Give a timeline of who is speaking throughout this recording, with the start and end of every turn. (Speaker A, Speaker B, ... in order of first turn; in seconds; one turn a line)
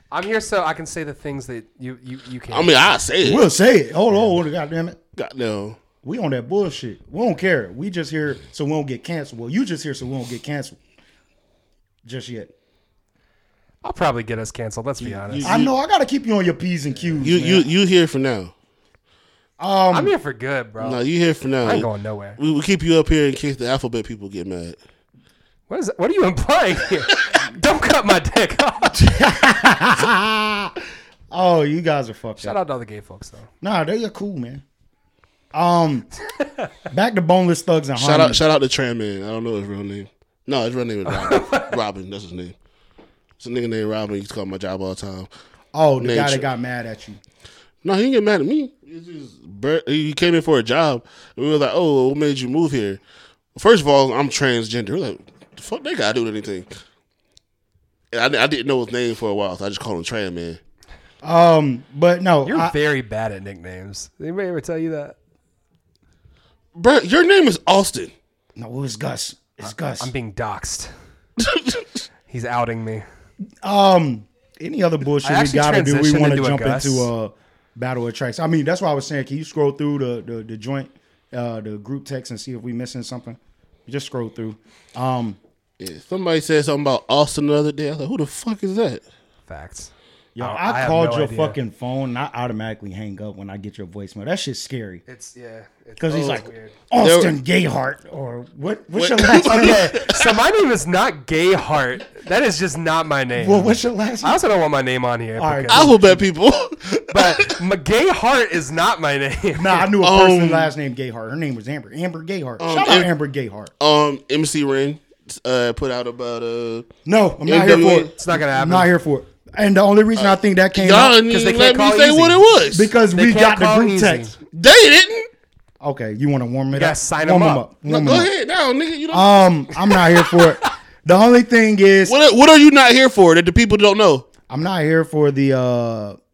Speaker A: 0.1-2.9
Speaker B: 2.5-3.5
Speaker C: 3.2-5.0
Speaker B: 5.2-5.8
Speaker C: 6.0-10.8
Speaker C: 12.1-12.5
Speaker A: 13.8-15.6
Speaker B: 15.0-15.7
Speaker C: 15.4-17.7
Speaker B: 17.2-18.5
Speaker C: 19.6-20.1
Speaker A: 19.9-21.0
Speaker B: 20.8-24.8
Speaker A: 21.6-22.4
Speaker A: 25.7-29.1
Speaker C: 29.0-30.8
Speaker C: 31.3-32.6
Speaker A: 32.4-33.5
Speaker C: 33.6-34.6
Speaker C: 35.5-36.1
Speaker C: 36.9-38.4
Speaker B: 38.0-42.5
Speaker A: 41.1-41.7
Speaker B: 43.4-45.3
Speaker C: 45.7-47.2
Speaker B: 46.0-46.5
Speaker B: 47.8-53.0
Speaker B: 53.5-56.7
Speaker B: 58.1-60.6
Speaker C: 61.2-62.8
Speaker A: 62.5-65.2
Speaker B: 66.8-68.1
Speaker C: 68.6-70.1
Speaker A: 69.6-70.9
Speaker B: 71.4-71.8
Speaker A: 72.3-73.0
Speaker C: 73.6-85.4
Speaker A: 75.2-77.1
Speaker B: 85.8-89.0
Speaker A: 89.5-91.6
Speaker C: 90.3-95.0
Speaker A: 95.1-96.8
Speaker C: 96.0-100.1
Speaker B: 97.0-97.4
Speaker B: 98.9-100.3
Speaker A: 100.0-106.0
Speaker C: 103.4-104.4
Speaker C: 105.4-106.2
Speaker B: 105.7-107.5
Speaker A: 107.1-109.9
Speaker C: 109.5-113.7
Speaker B: 110.0-110.7
Speaker B: 112.6-113.1
Speaker B: 113.8-116.9
Speaker C: 117.1-121.2
Speaker B: 117.5-118.1
Speaker A: 118.2-118.9
Speaker B: 120.2-122.9
Speaker A: 121.3-122.4
Speaker C: 122.7-124.3
Speaker A: 123.1-124.4
Speaker B: 124.5-125.3
Speaker C: 125.8-128.3
Speaker A: 126.7-127.7
Speaker B: 127.9-129.5
Speaker C: 129.1-132.2
Speaker B: 132.1-134.3
Speaker C: 134.5-136.2